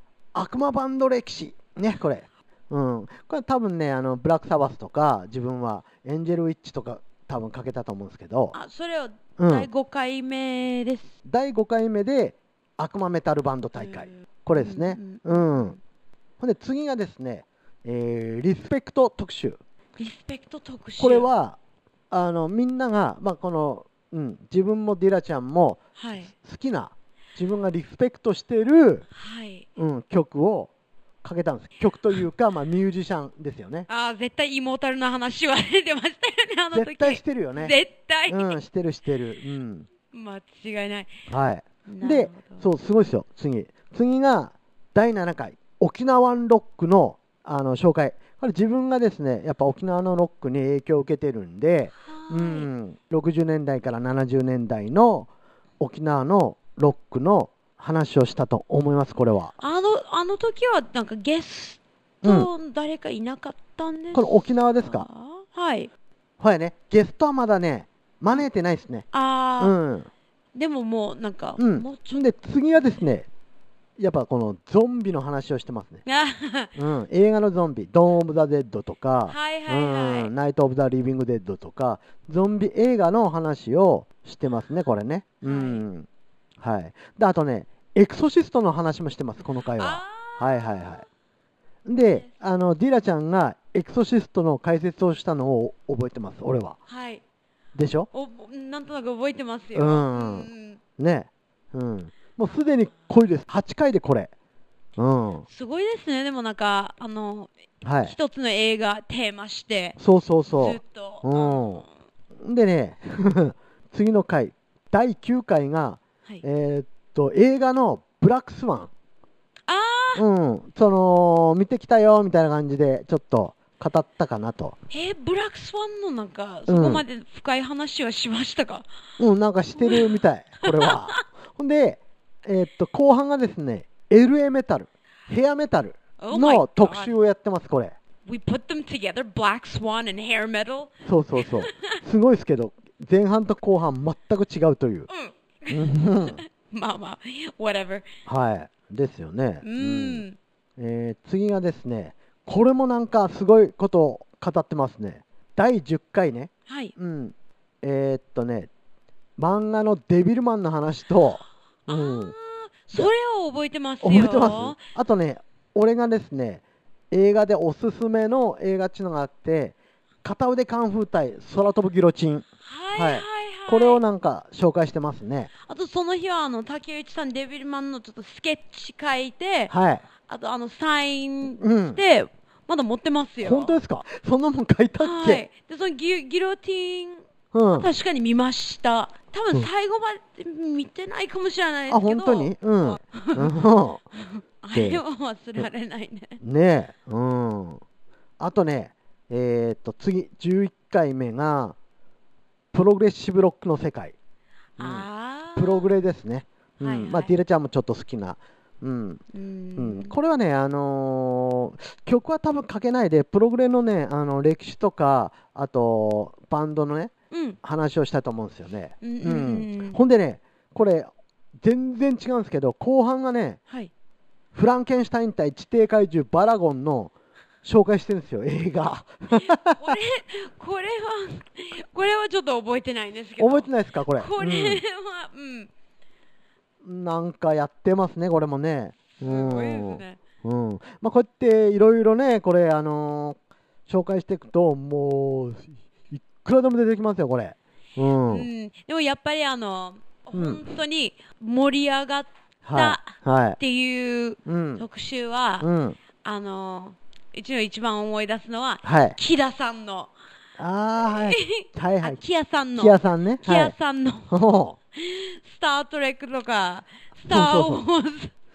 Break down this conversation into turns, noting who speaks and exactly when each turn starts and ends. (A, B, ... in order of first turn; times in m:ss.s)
0:00.3-0:08.5 A
0:08.5-0:11.1 B
0:09.4-0:09.7 A
0:11.2-0:15.8 A
0:13.8-0:15.8 B
0:16.4-0:19.6 A
0:20.0-0:21.3 B
0:21.0-0:21.6 A
0:22.1-0:29.0 A
0:26.0-0:26.3 B
0:29.1-0:29.6 B
0:29.8-0:30.7 A
0:31.2-0:33.9 A
0:33.9-0:38.6 B
0:36.7-0:37.7 A
0:38.3-0:39.9 A
0:40.1-0:41.2 B
0:41.3-0:55.3 A
0:41.9-0:42.7 B
0:52.0-0:52.7 B
0:55.8-0:59.5 A
0:59.6-1:05.9 B
1:02.2-1:02.5 A
1:04.1-1:05.1 A
1:06.4-1:09.0 A
1:09.1-1:09.7 B
1:09.6-1:10.1 A
1:10.5-1:12.2 B
1:11.6-1:13.3 A
1:14.0-1:16.0 A
1:16.0-1:16.8 B
1:16.8-1:26.1 A
1:19.3-1:20.3 B
1:25.4-1:25.8 B
1:26.6-1:31.0 A
1:29.7-1:31.0 B
1:31.8-1:36.8 A
1:32.0-1:32.3 B
1:36.9-1:37.2 B
1:37.7-1:38.1 A
1:38.1-1:40.8 B
1:39.7-1:44.3 A
1:45.0-1:45.5 A
1:45.5-1:47.5 B
1:47.8-1:48.1 A
1:48.0-1:50.0 B
1:50.0-1:51.8 A
1:50.5-1:51.8 B
1:52.4-1:58.9 A
1:59.7-2:00.2 B
2:00.2-2:04.7 A
2:04.9-2:08.8 B
2:06.7-2:07.0 A
2:09.2-2:17.9 A
2:09.8-2:11.2 B
2:16.2-2:17.1 B
2:18.2-2:22.0 B
2:21.0-2:25.1 A
2:25.1-2:28.1 B
2:25.7-2:26.4 A
2:28.2-2:30.2 A
2:29.6-2:30.4 B
2:30.8-2:38.7 A
2:36.7-2:36.9 B
2:39.4-2:42.3 A
2:41.9-2:44.8 B
2:44.0-2:55.5 A
2:52.6-2:54.0 B
2:55.7-2:59.7 B
2:59.7-3:00.0 A
3:00.2-3:03.8 B
3:01.6-3:02.0 A
3:03.4-3:05.4 A
3:05.0-3:07.2 B
3:07.5-3:07.9 A
3:07.7-3:13.5 B
3:11.9-3:14.0 A
3:14.2-3:16.4 B
3:14.7-3:15.0 A
3:16.4-3:17.8 A
3:18.4-3:21.8 A
3:22.7-3:24.1 A
3:24.8-3:25.9 B
3:24.8-3:29.2 A
3:26.8-3:27.4 B
3:29.3-3:30.2 B
3:29.8-3:37.1 A
3:37.3-3:37.6 B
3:37.6-3:43.6 A
3:39.0-3:40.0 B
3:44.5-3:47.1 A
3:47.6-3:50.0 A
3:49.3-3:55.7 B
3:53.4-3:54.8 A
3:56.8-4:03.4 A
3:59.2-4:00.2 B
4:03.9-4:08.5 A
4:08.3-4:15.7 B
4:10.3-4:10.6 A
4:12.6-4:13.6 A
4:14.4-4:14.8 A
4:15.6-4:16.0 A
4:16.2-4:20.1 B
4:18.8-4:19.2 A
4:20.6-4:22.2 A
4:21.0-4:24.3 B
4:22.8-4:23.7 A
4:24.3-4:24.8 A
4:24.9-4:28.3 B
4:27.3-4:27.8 A